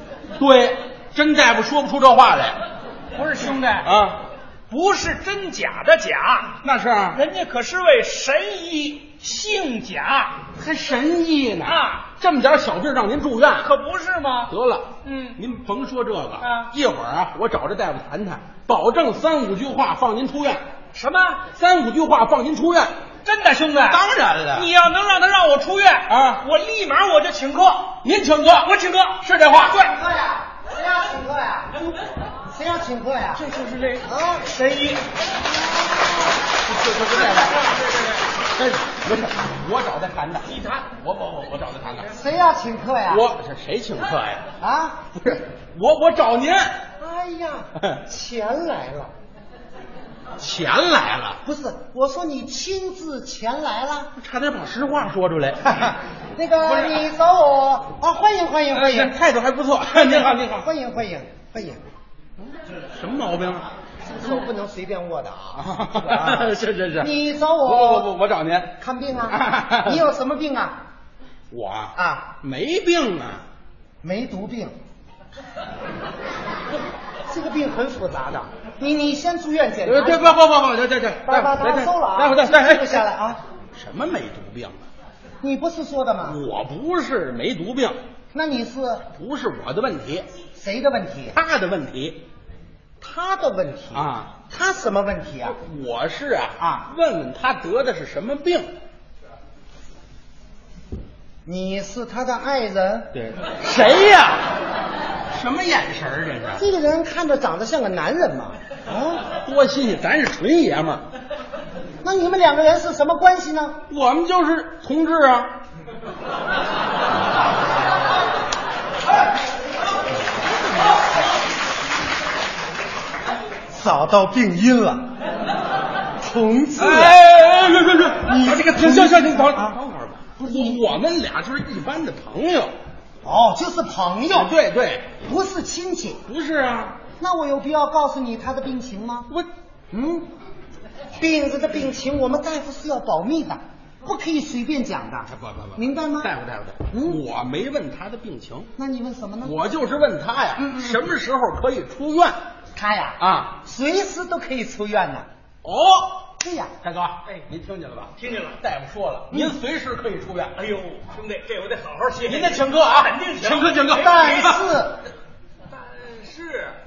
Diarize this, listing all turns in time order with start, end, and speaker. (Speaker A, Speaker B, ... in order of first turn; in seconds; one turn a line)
Speaker A: 0.4-2.6
Speaker B: 3.1-3.9
Speaker A: 3.8-4.2
Speaker B: 4.7-10.4
Speaker A: 6.6-7.2
Speaker A: 10.6-13.7
Speaker B: 11.6-12.1
Speaker B: 13.6-15.4
Speaker A: 14.5-20.6
Speaker B: 16.4-16.7
Speaker B: 20.9-21.4
Speaker A: 21.5-22.9
Speaker B: 23.2-28.0
Speaker A: 23.9-24.7
Speaker A: 26.1-26.4
Speaker A: 28.0-28.7
Speaker B: 28.6-29.7
Speaker A: 29.2-29.9
Speaker C: 29.5-32.0
Speaker C: 32.5-33.5
Speaker B: 33.4-35.0
Speaker C: 34.0-34.5
Speaker A: 36.6-37.7
Speaker B: 37.1-38.2
Speaker A: 38.5-42.1
Speaker B: 40.5-40.9
Speaker C: 42.1-43.2
Speaker A: 43.1-44.5
Speaker C: 44.6-45.1
Speaker A: 45.1-46.8
Speaker C: 47.0-49.1
Speaker A: 50.4-51.4
Speaker C: 51.4-54.1
Speaker A: 54.2-56.0
Speaker C: 55.7-59.1
Speaker A: 56.6-57.0
Speaker A: 58.7-60.7
Speaker C: 59.9-61.8
Speaker A: 62.7-63.7
Speaker C: 64.0-68.1
Speaker A: 65.5-67.1
Speaker A: 67.6-70.0
Speaker C: 68.8-70.8
Speaker A: 71.5-73.4
Speaker C: 72.0-72.3
Speaker C: 74.0-74.7
Speaker C: 77.3-80.4
Speaker A: 79.8-83.0
Speaker C: 81.2-83.4
Speaker A: 83.7-84.8
Speaker C: 85.4-86.4
Speaker A: 86.2-88.0
Speaker C: 88.3-89.1
Speaker A: 89.2-90.2
Speaker C: 90.5-91.4
Speaker A: 91.3-92.2
Speaker C: 93.0-95.6
Speaker A: 93.9-94.3
Speaker A: 95.4-98.7
Speaker C: 101.4-103.1
Speaker A: 103.1-104.5
Speaker A: 105.3-106.6
Speaker C: 106.6-109.2
Speaker A: 109.3-111.0
Speaker C: 112.0-113.8
Speaker A: 113.9-115.5
Speaker C: 123.7-125.1
Speaker C: 126.2-127.2
Speaker A: 126.8-132.7
Speaker B: 127.7-128.1
Speaker C: 128.2-129.8
Speaker C: 130.4-130.8
Speaker C: 133.2-134.5
Speaker A: 134.3-135.1
Speaker C: 135.2-136.2
Speaker A: 136.2-137.0
Speaker C: 137.2-139.3
Speaker C: 139.9-140.3
Speaker C: 141.2-146.3
Speaker A: 145.3-148.7
Speaker C: 146.9-147.2
Speaker C: 148.8-149.5
Speaker A: 149.4-152.4
Speaker C: 150.6-150.9
Speaker C: 152.7-155.2
Speaker A: 153.2-153.6
Speaker A: 155.6-156.3
Speaker C: 156.4-156.7
Speaker A: 156.8-160.6
Speaker B: 158.2-158.6
Speaker C: 159.3-159.6
Speaker B: 160.6-164.6
Speaker A: 162.2-164.6
Speaker C: 163.9-165.0
Speaker B: 165.7-166.7